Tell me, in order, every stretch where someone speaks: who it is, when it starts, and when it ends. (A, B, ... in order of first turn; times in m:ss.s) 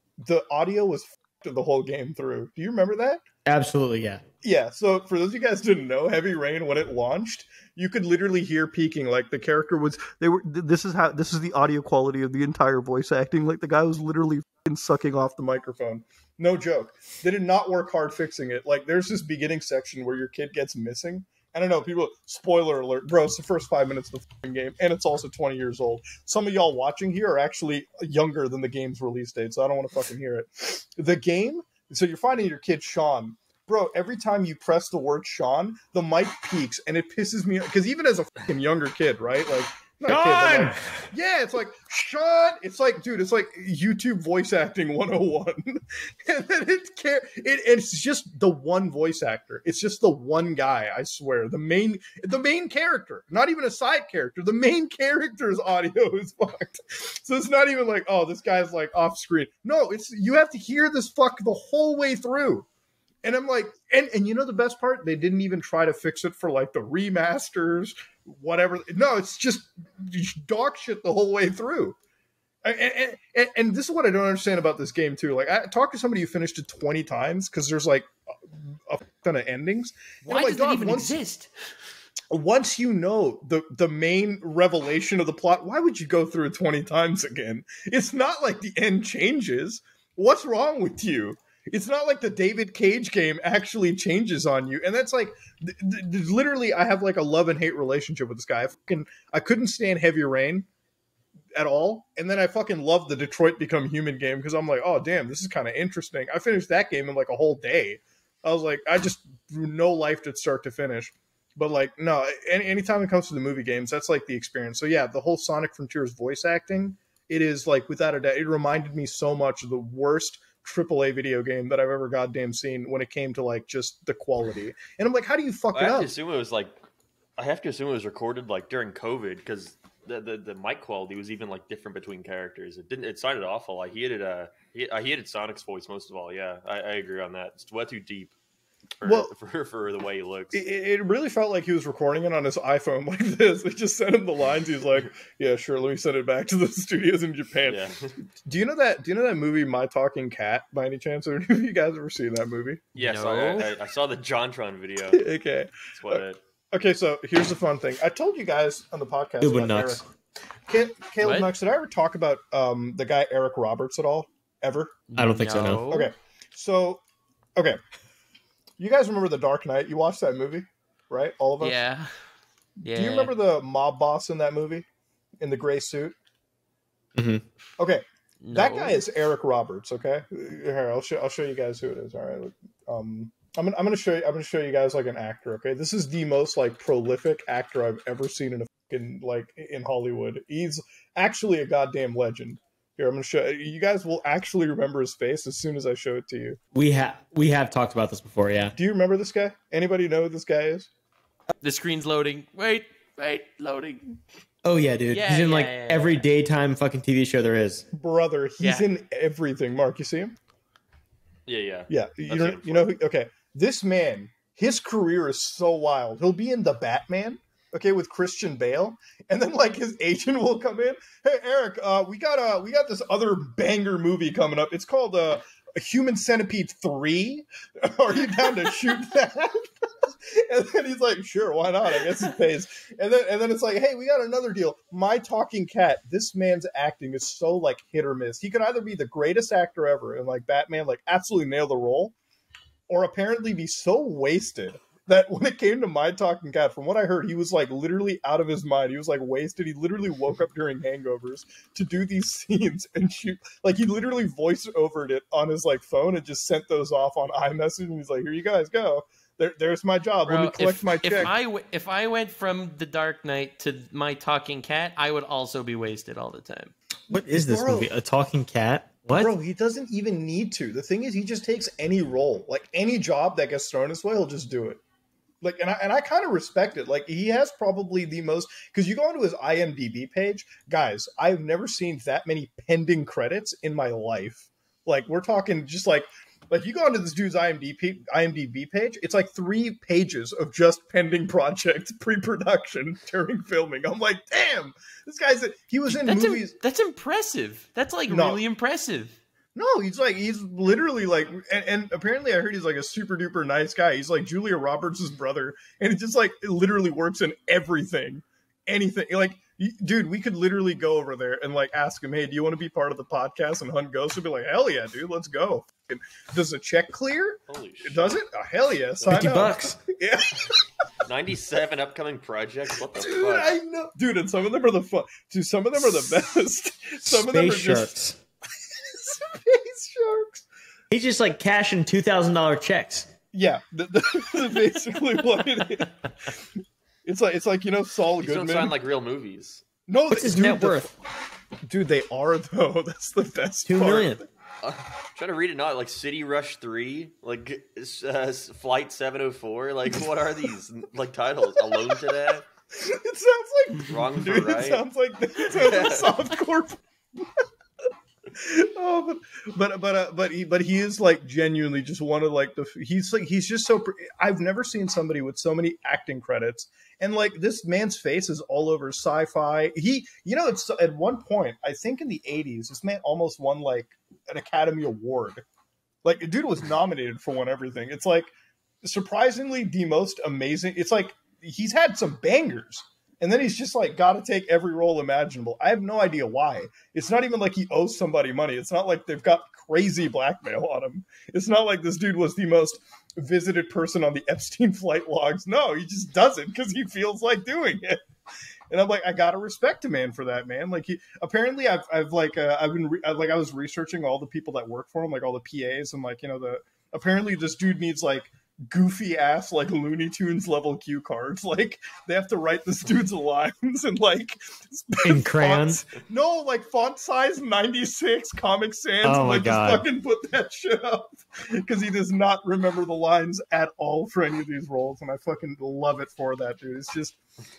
0:00.2-0:03.2 A
0:03.4-0:04.2 B
0:04.4-1:02.6 A
0:40.1-0:41.1 B
1:03.2-1:12.0 A
1:12.6-1:21.2 A
1:20.2-1:21.5 C
1:22.3-1:40.7 A
1:41.6-2:06.1 A
2:05.7-2:06.8 D
2:07.4-2:18.3 D
2:19.0-2:20.6 D
2:19.0-2:19.3 A
2:20.5-2:27.9 A
2:27.6-2:28.1 D
2:28.4-2:32.8 A
2:32.9-2:35.2 D
2:33.0-2:33.7 C
2:35.1-2:40.0 A
2:35.9-2:36.4 D
2:39.4-2:40.0 B
2:40.7-2:45.0 A
2:41.2-2:41.5 C
2:45.1-2:46.1 C
2:45.2-2:45.8 B
2:45.8-2:47.0 A
2:48.8-2:51.8 A
2:51.6-2:52.1 C
2:52.8-2:53.3 C
2:52.9-2:54.9 A
2:55.4-2:56.2 A
2:57.1-2:57.4 B
2:57.8-3:16.6 A
2:58.4-2:59.0 C
3:16.7-3:18.7 B
3:18.8-3:20.9 A
3:21.6-3:24.2 C
3:24.6-3:27.8 B
3:25.1-3:26.2 C
3:27.9-3:30.3 A
3:28.6-3:28.9 C
3:31.5-3:32.9 D
3:31.9-4:02.1 A
4:02.9-4:21.3 A
4:20.2-4:26.7 C
4:27.1-4:27.9 A
4:27.1-4:29.3 B
4:29.2-4:34.8 A
4:35.4-4:56.5 A
4:55.9-4:59.2 C
4:58.1-4:58.4 A
4:59.5-5:20.6 A
5:17.5-5:18.2 D
5:19.0-5:19.4 D
5:19.1-5:19.8 B
5:21.0-5:23.5 D
5:23.0-5:27.9 A
5:27.0-5:28.2 B
5:28.8-5:30.4 A
5:30.9-5:33.1 B
5:33.3-5:36.3 A
5:37.0-5:38.7 A
5:38.2-5:39.6 D
5:39.9-5:40.9 A
5:40.1-5:40.9 B
5:41.6-5:44.2 A
5:43.6-5:44.2 B
5:44.6-5:52.5 D
5:52.7-5:57.4 A
5:53.8-5:54.8 D
5:55.4-5:56.2 D
5:58.3-6:15.4 A
6:16.0-6:18.3 A
6:18.8-6:38.0 A
6:38.7-7:07.2 A
6:55.0-6:55.8 B
6:59.0-6:59.8 B